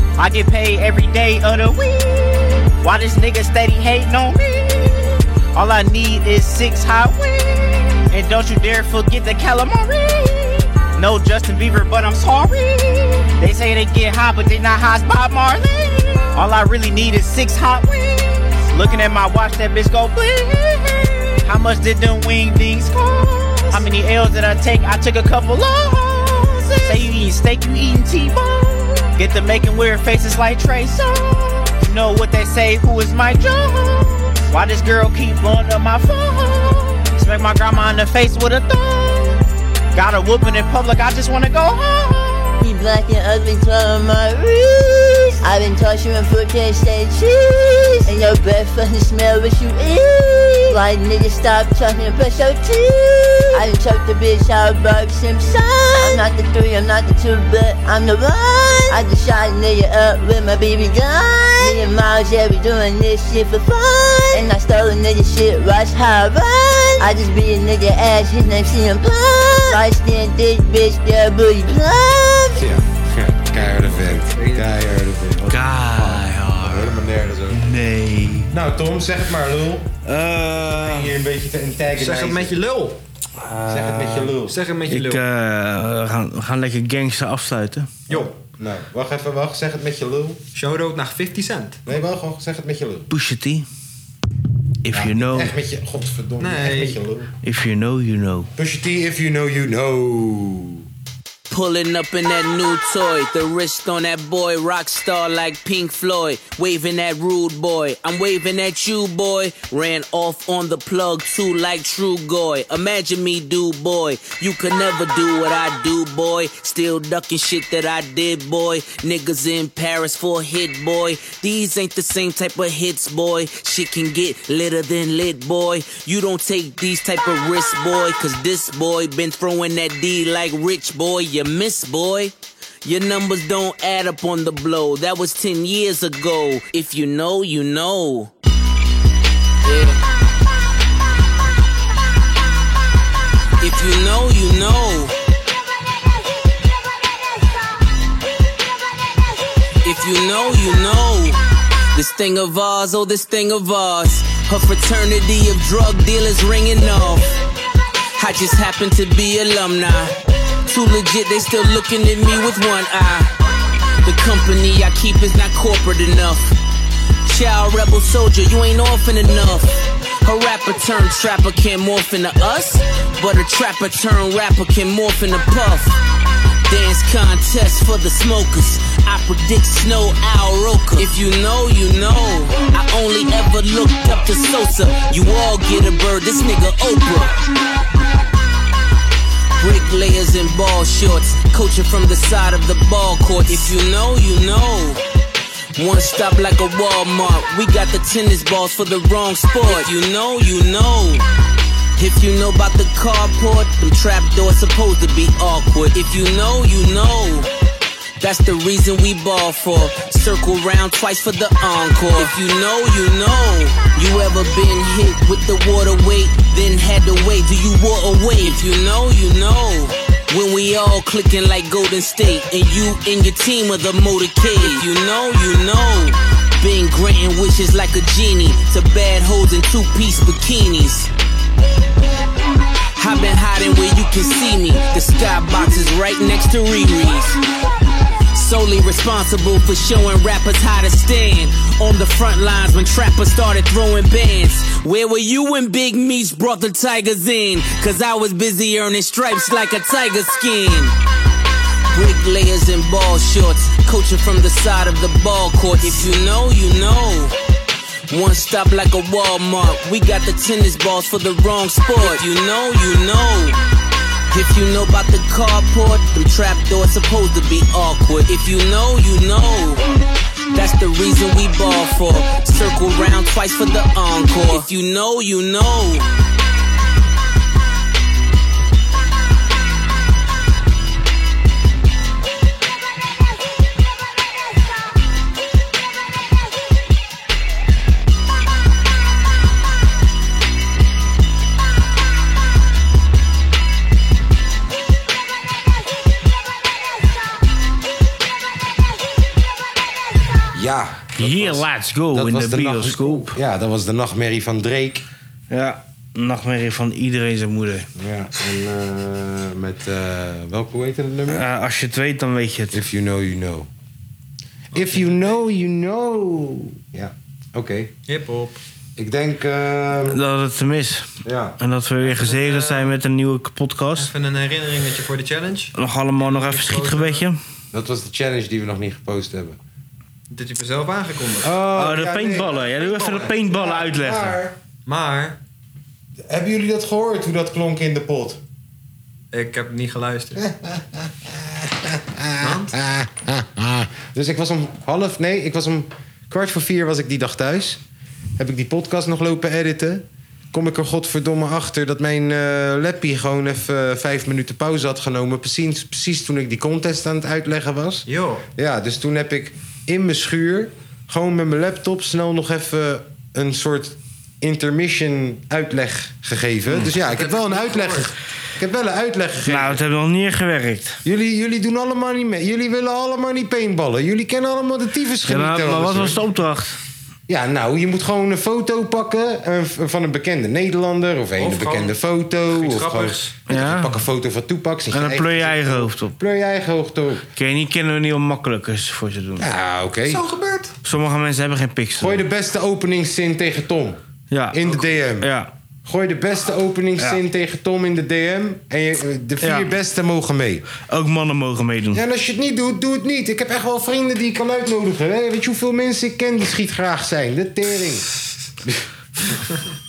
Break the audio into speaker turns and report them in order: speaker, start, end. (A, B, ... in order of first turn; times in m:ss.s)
0:00.2-0:39.4 A
0:39.9-0:42.6 A
0:42.6-1:12.7 B
1:12.5-1:17.7 C
1:13.8-1:14.8 D
1:15.5-1:18.5 E
1:18.5-1:19.9 C
1:20.0-1:21.1 E
1:20.8-1:22.6 C
1:22.0-1:23.0 D
1:23.4-1:24.3 E
1:23.6-1:24.6 C
1:24.5-1:25.2 D
1:24.9-1:28.1 E
1:28.1-1:30.4 C
1:30.5-1:31.8 D
1:31.8-1:33.1 C
1:33.1-1:33.6 E
1:34.8-1:35.5 E
1:34.9-1:37.3 C
1:36.4-1:37.0 D
1:37.4-1:38.5 E
1:38.6-1:40.8 C
1:41.5-2:18.3 F
2:19.6-2:20.0 F
2:23.6-2:25.1 F
2:29.8-2:31.4 F
2:31.9-2:37.3 F
2:38.2-2:40.1 F
2:40.7-2:43.3 F
2:44.0-2:46.4 F
2:47.2-2:56.0 F
2:56.6-3:07.4 F
3:09.5-3:15.0 F
3:15.7-3:21.2 F
3:22.0-3:27.5 F
3:28.2-3:51.1 F
3:53.0-3:57.4 F
3:58.3-4:10.9 F
4:11.9-4:17.3 F
4:18.1-4:23.6 F
4:24.3-4:29.8 F
4:30.5-4:36.1 F
5:00.5-5:05.0 C
5:01.2-5:03.4 E
5:05.5-5:07.9 E
5:08.0-5:11.4 C
5:11.3-5:12.8 E
5:12.7-5:13.7 C
5:14.7-5:15.4 D
5:14.7-5:17.9 C
5:18.1-5:18.6 D
5:19.0-5:20.2 C
5:20.1-5:24.1 E
5:21.2-5:21.6 C
5:22.0-5:22.9 D
5:24.0-5:27.2 D
5:25.8-5:27.4 E
5:27.7-5:29.6 C
5:30.3-5:31.6 D
5:31.4-5:34.6 C
5:31.7-5:34.4 E
5:34.8-5:35.4 D
5:36.3-5:38.4 C
5:39.3-5:40.4 D
5:40.4-5:47.8 C
5:42.4-5:42.7 D
5:48.4-6:09.8 C
5:58.1-5:58.4 D
6:06.9-6:08.1 D
6:09.4-6:11.0 E
6:11.0-6:16.2 C
6:15.3-6:16.8 E
6:17.3-6:27.2 C
6:21.4-6:22.0 D
6:22.5-6:23.4 D
6:23.5-6:24.0 E
6:24.9-6:26.2 E
6:27.4-6:29.5 E
6:29.4-6:30.2 C
6:30.1-6:30.8 D
6:30.8-6:32.2 E
6:32.0-6:34.0 C
6:34.3-6:34.6 E
6:34.5-6:35.3 C
6:34.6-6:34.9 D
6:35.2-6:35.5 E
6:35.8-6:40.7 C
6:39.4-6:39.7 E
6:40.9-6:42.0 E
6:41.9-6:48.1 C
6:48.6-6:49.4 C